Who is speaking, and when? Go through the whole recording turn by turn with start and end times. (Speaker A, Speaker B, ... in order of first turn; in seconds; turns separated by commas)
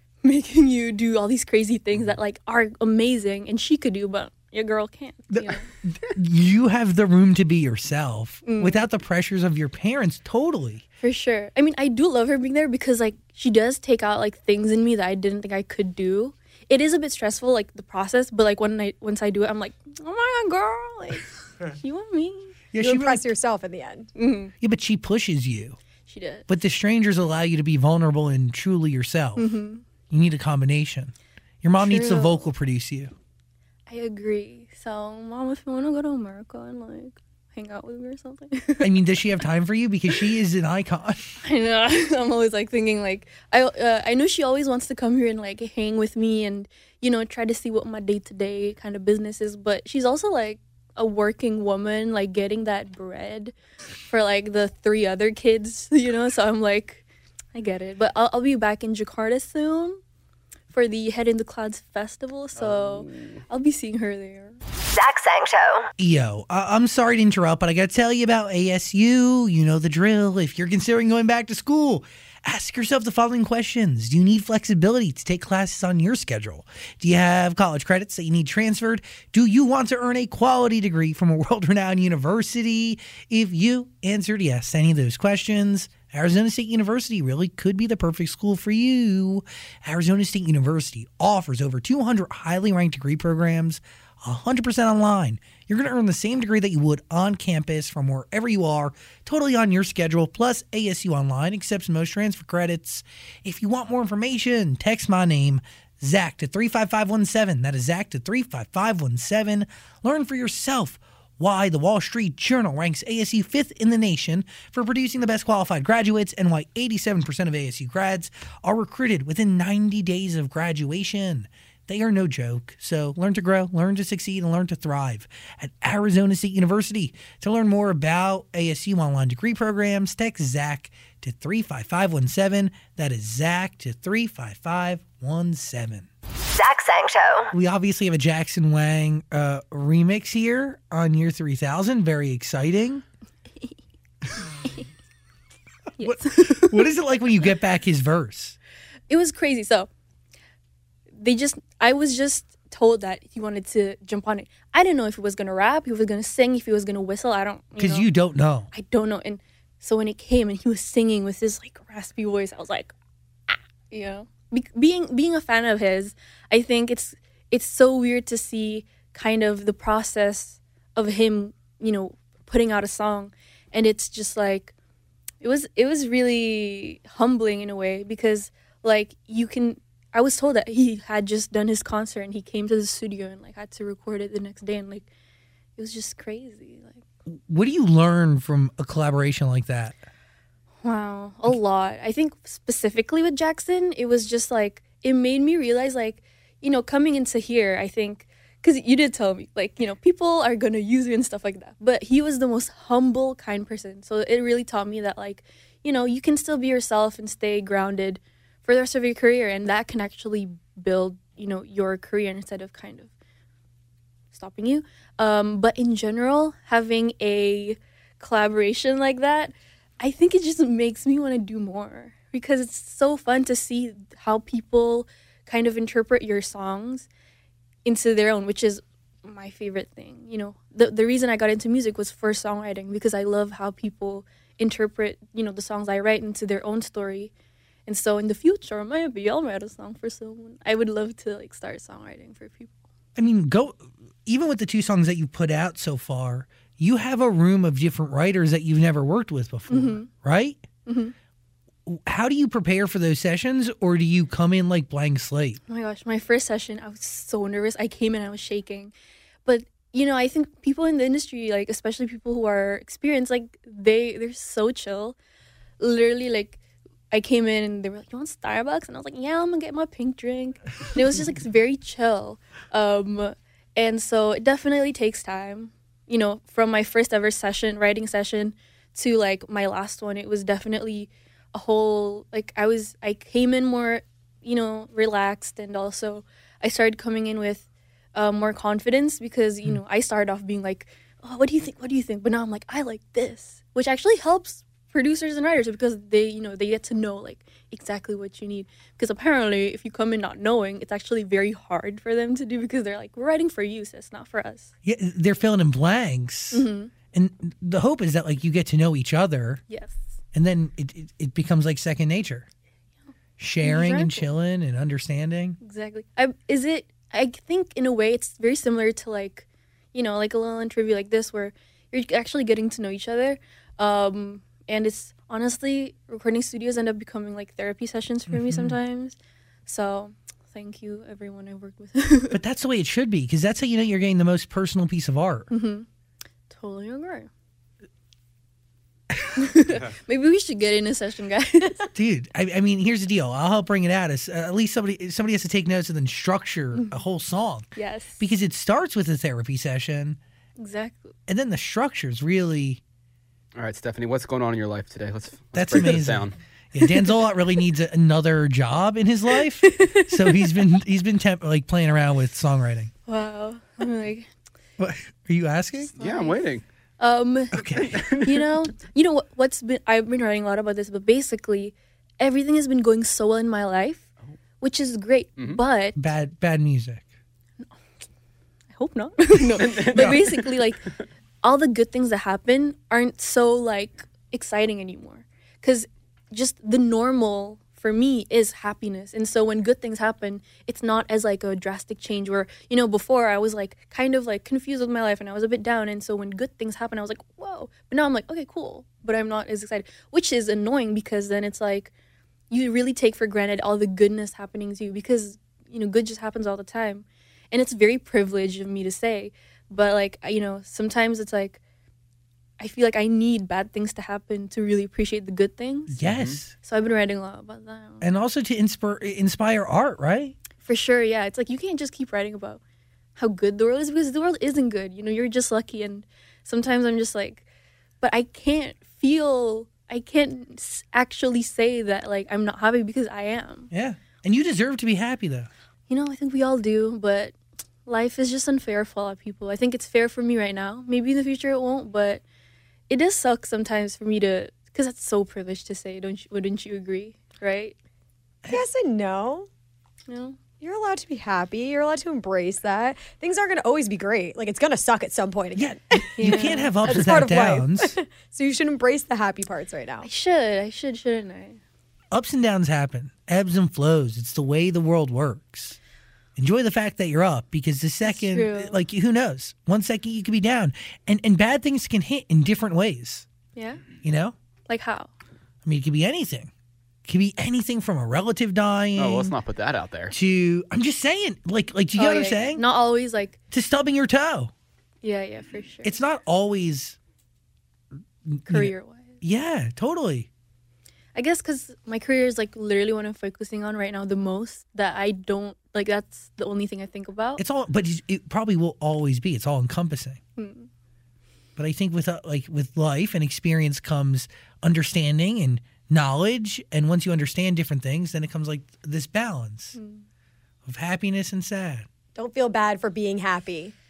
Speaker A: 0.2-5.7, Speaker B: 5.3-10.8, Speaker A: 8.4-8.8, Speaker A: 11.0-22.6, Speaker B: 22.7-23.3, Speaker C: 22.8-24.1, Speaker A: 24.1-24.5, Speaker B: 24.6-25.8, Speaker A: 26.1-26.5, Speaker B: 26.5-29.5, Speaker A: 29.4-29.8, Speaker B: 30.1-33.1, Speaker A: 31.8-32.5, Speaker A: 33.9-38.9, Speaker B: 38.8-41.4, Speaker A: 41.4-53.5, Speaker A: 54.1-60.0, Speaker A: 60.7-64.6, Speaker D: 62.5-63.4, Speaker E: 64.9-65.9, Speaker B: 66.0-136.1, Speaker E: 136.5-137.5, Speaker B: 137.5-143.0, Speaker A: 146.0-146.9, Speaker B: 146.0-148.6, Speaker A: 149.1-149.9, Speaker A: 151.2-158.1, Speaker B: 157.8-158.7, Speaker A: 158.7-162.9, Speaker A: 163.5-174.7, Speaker A: 175.4-185.1, Speaker A: 185.8-187.0, Speaker B: 187.3-190.0, Speaker A: 190.8-213.1, Speaker A: 214.3-227.1, Speaker A: 227.8-237.3, Speaker A: 237.8-242.7, Speaker B: 243.2-250.6, Speaker A: 249.7-250.1, Speaker A: 250.8-251.1, Speaker B: 251.8-255.6, Speaker A: 255.7-258.9, Speaker A: 259.4-265.1, Speaker A: 265.8-266.6, Speaker A: 267.1-304.7, Speaker B: 304.8-309.6, Speaker A: 306.5-306.9, Speaker A: 309.7-310.0, Speaker B: 310.3-312.5, Speaker B: 313.4-315.6, Speaker A: 313.6-314.2, Speaker A: 315.6-332.4, Speaker B: 328.3-328.8, Speaker B: 332.3-335.5, Speaker A: 335.5-335.9, Speaker A: 336.5-337.3, Speaker A: 339.3-341.9, Speaker B: 341.9-350.2, Speaker A: 347.7-348.2, Speaker A: 350.6-351.1, Speaker B: 351.3-352.8, Speaker D: 353.5-356.4, Speaker B: 355.5-362.9, Speaker A: 359.6-360.6, Speaker A: 363.1-364.3, Speaker B: 364.8-365.9, Speaker A: 365.8-374.1, Speaker D: 366.0-366.6, Speaker B: 367.5-368.1, Speaker D: 367.9-368.3, Speaker A: 374.6-376.0, Speaker B: 375.9-377.0, Speaker A: 378.7-380.8, Speaker D: 379.6-380.5, Speaker B: 379.9-380.2, Speaker A: 381.4-401.9, Speaker A: 402.5-411.6, Speaker A: 412.6-416.0, Speaker B: 415.9-416.5, Speaker D: 416.0-416.4, Speaker A: 416.6-418.0, Speaker B: 418.0-420.4, Speaker A: 420.6-422.6, Speaker A: 423.2-427.4, Speaker A: 428.0-433.7, Speaker B: 433.7-435.5, Speaker A: 435.9-437.3, Speaker A: 437.9-442.2, Speaker A: 442.9-447.7, Speaker C: 448.5-449.5, Speaker A: 450.1-450.4, Speaker C: 450.6-460.1, Speaker B: 455.6-458.0, Speaker A: 456.2-456.8, Speaker A: 460.0-461.6, Speaker B: 462.1-465.8, Speaker B: 466.4-473.2, Speaker A: 468.0-468.8, Speaker A: 473.6-473.8, Speaker B: 474.0-474.3, Speaker A: 474.7-475.1, Speaker B: 475.6-476.5, Speaker B: 477.1-479.3, Speaker D: 479.0-480.1, Speaker B: 480.1-482.6, Speaker A: 481.9-483.4, Speaker B: 483.5-484.5, Speaker A: 485.0-486.0, Speaker B: 485.8-487.0, Speaker B: 488.3-490.3, Speaker A: 488.5-489.2, Speaker A: 491.1-497.4, Speaker B: 497.4-500.2, Speaker A: 500.4-500.7, Speaker B: 501.6-509.8, Speaker A: 509.7-510.0, Speaker B: 510.6-511.9, Speaker C: 512.1-513.8